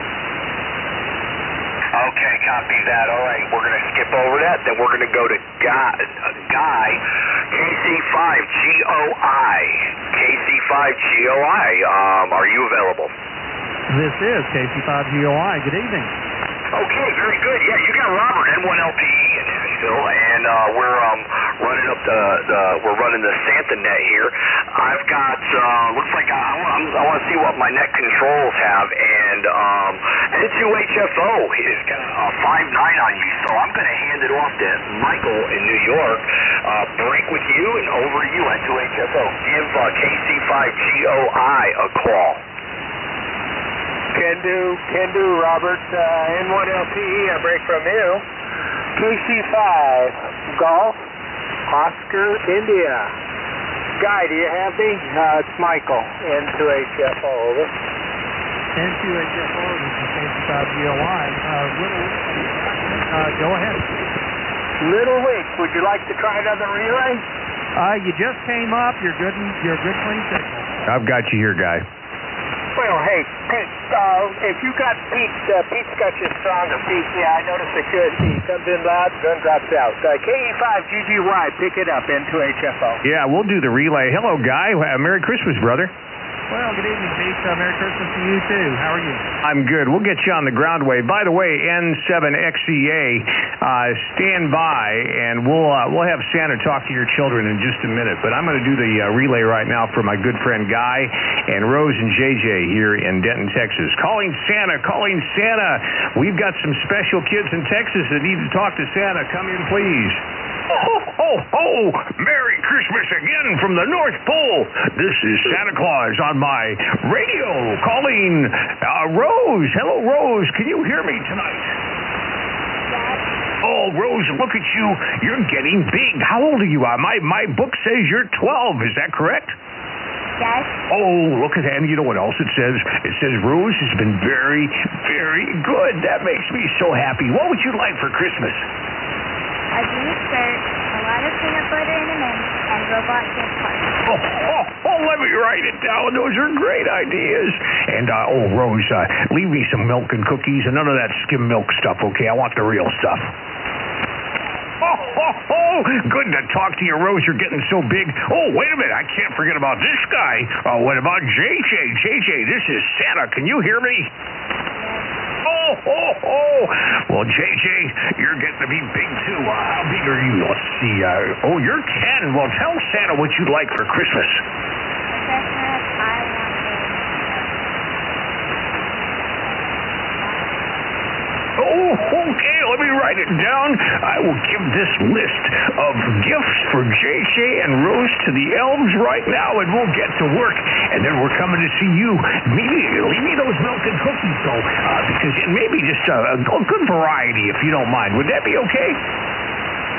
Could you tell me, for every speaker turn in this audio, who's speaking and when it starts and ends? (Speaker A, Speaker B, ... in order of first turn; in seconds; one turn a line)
Speaker A: 1.9-13.1
Speaker B: 13.9-16.1
Speaker A: 16.7-42.4
Speaker C: 44.1-48.2
Speaker C: 49.0-51.0
Speaker C: 51.7-53.1
Speaker C: 54.0-57.7
Speaker B: 58.8-64.1
Speaker C: 64.8-67.2
Speaker B: 67.8-70.9
Speaker D: 70.9-71.8
Speaker C: 72.8-83.0
Speaker D: 83.0-85.9
Speaker B: 86.5-89.3
Speaker D: 89.4-121.8
Speaker E: 122.9-123.2
Speaker D: 123.6-129.6
Speaker E: 130.4-130.8
Speaker D: 130.9-138.7
Speaker E: 139.7-144.1
Speaker D: 144.0-153.3
Speaker D: 154.8-164.1
Speaker E: 164.8-165.1
Speaker D: 165.4-174.4
Speaker E: 175.1-177.7
Speaker E: 180.2-180.6
Speaker D: 181.6-199.0